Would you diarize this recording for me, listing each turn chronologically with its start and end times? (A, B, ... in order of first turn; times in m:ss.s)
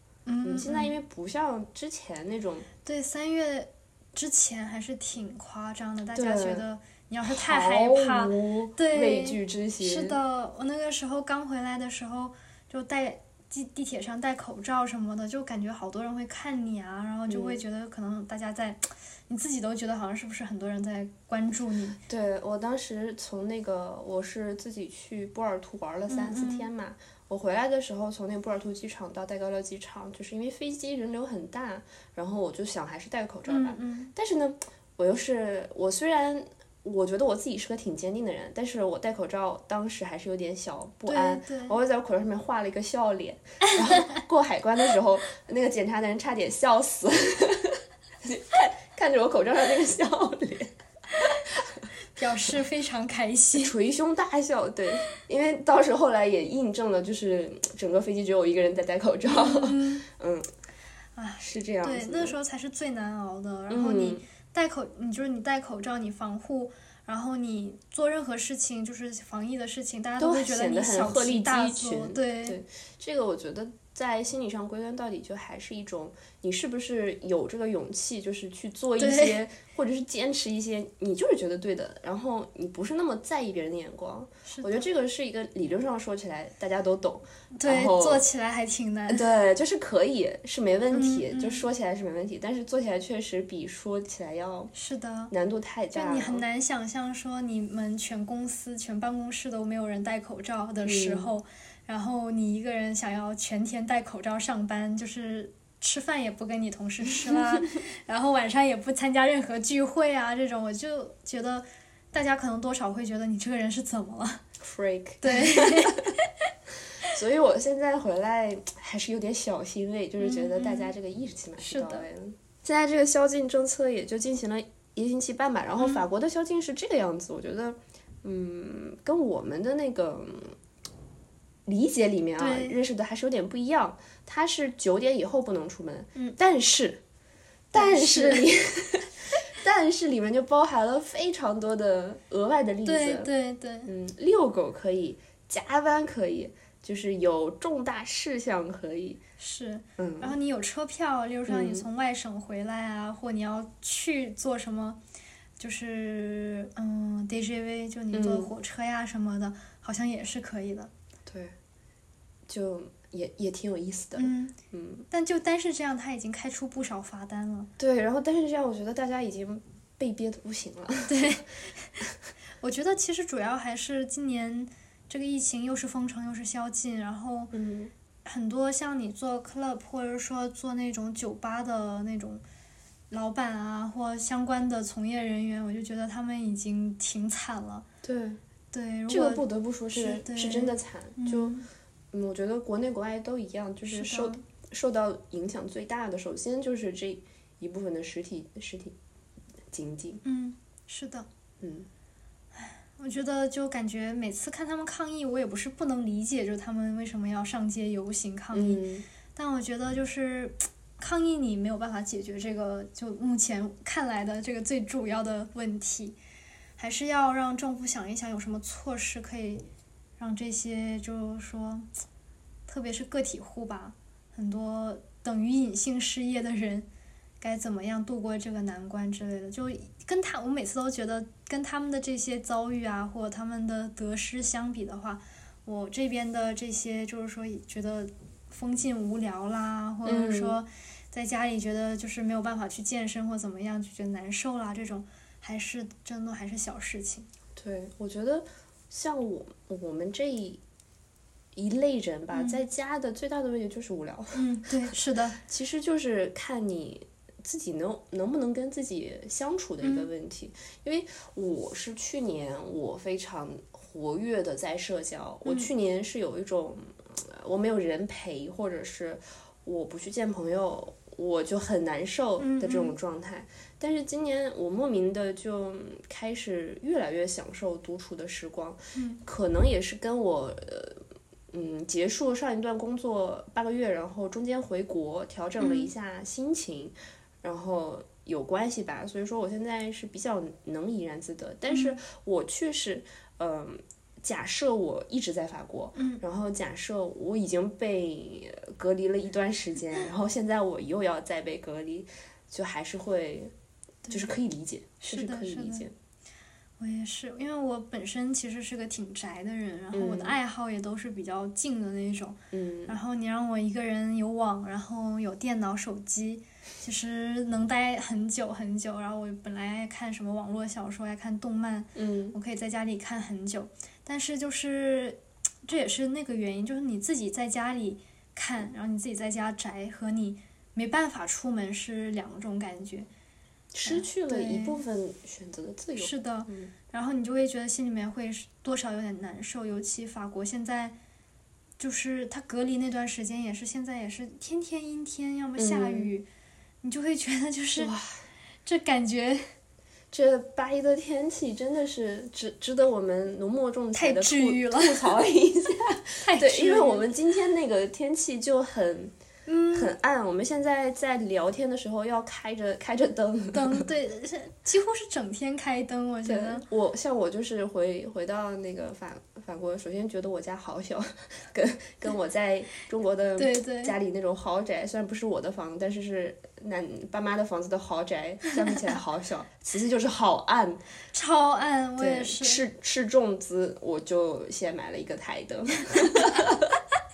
0:00.3-0:00.9 A
0:00.4-0:02.7 B
0:02.8-0:22.0 A
0:06.1-0:06.6 B
0:07.2-0:10.2 B
0:17.3-0:17.6 B
0:22.1-0:51.8 B
0:26.1-0:26.7 A
0:33.5-0:34.1 A
0:41.1-0:41.8 A
0:43.7-0:44.2 A
0:52.1-0:53.7 A
0:53.6-1:00.5 B
0:59.2-1:00.0 A
1:01.2-1:12.6 A
1:01.4-1:02.4 B
1:03.7-1:04.2 B
1:10.2-1:28.2 B
1:19.0-1:19.4 A
1:24.4-1:24.8 A
1:27.5-1:29.3 A
1:29.1-1:34.7 B
1:30.9-1:31.7 A
1:34.7-1:35.3 A
1:35.3-1:36.4 B
1:35.9-1:54.4 A
1:40.8-1:41.3 B
1:47.2-1:47.6 B
1:54.6-1:56.1 B
1:55.2-1:56.2 A
1:57.1-2:10.6 B
2:00.2-2:00.9 A
2:01.6-2:02.1 A
2:05.8-2:06.0 A
2:11.6-2:17.0 B
2:12.4-2:12.8 A
2:17.7-2:23.3 B
2:17.7-2:18.5 A
2:22.8-2:23.9 A
2:23.8-2:29.2 B
2:29.4-2:35.0 A
2:30.0-2:30.3 B
2:31.5-2:31.8 B
2:35.6-2:40.9 A
2:38.1-2:38.5 B
2:41.2-2:41.5 B
2:42.5-2:45.1 B
2:44.2-2:44.6 A
2:45.1-2:47.7 A
2:47.8-2:51.4 B
2:51.1-2:52.0 A
2:52.6-2:57.5 A
2:57.5-2:57.9 B
2:58.2-3:02.4 A
3:03.1-3:07.8 A
3:08.0-3:08.4 B
3:08.7-3:11.7 A
3:09.1-3:11.6 B
3:12.1-3:19.0 B
3:13.9-3:14.4 A
3:19.7-3:20.2 B
3:20.2-3:21.3 A
3:21.6-3:21.9 B
3:22.6-3:28.8 A
3:28.5-3:29.0 B
3:29.3-3:36.2 A
3:36.8-3:39.6 A
3:40.2-3:41.9 A
3:42.7-3:46.9 A
3:47.4-4:07.3 A
4:00.0-4:00.6 B
4:07.6-4:10.6 B
4:11.5-5:03.5 B
4:12.3-4:12.6 A
4:14.3-4:15.4 A
4:19.8-4:20.1 A
4:32.4-4:32.9 A
4:38.9-4:39.2 A
4:45.6-4:45.9 A
4:51.7-4:52.0 A
4:56.0-4:56.2 A
5:04.0-5:04.3 A
5:04.1-5:05.9 B
5:05.0-5:05.8 A
5:06.8-5:33.1 A
5:09.9-5:10.4 B
5:12.5-5:13.0 B
5:21.9-5:22.3 B
5:33.7-5:36.7 B
5:33.8-5:34.8 A
5:36.0-5:41.0 A
5:41.8-5:46.3 A
5:45.6-5:46.1 B
5:46.8-5:47.9 A
5:47.8-5:48.1 B
5:48.6-5:49.4 A
5:50.1-5:59.1 B
5:53.9-5:55.1 A
5:56.2-5:57.0 A
5:59.5-5:59.9 A
5:59.7-6:03.8 B
6:03.5-6:06.6 A
6:06.2-6:20.8 B
6:13.4-6:13.9 A
6:21.1-6:22.6 A
6:22.0-6:26.7 B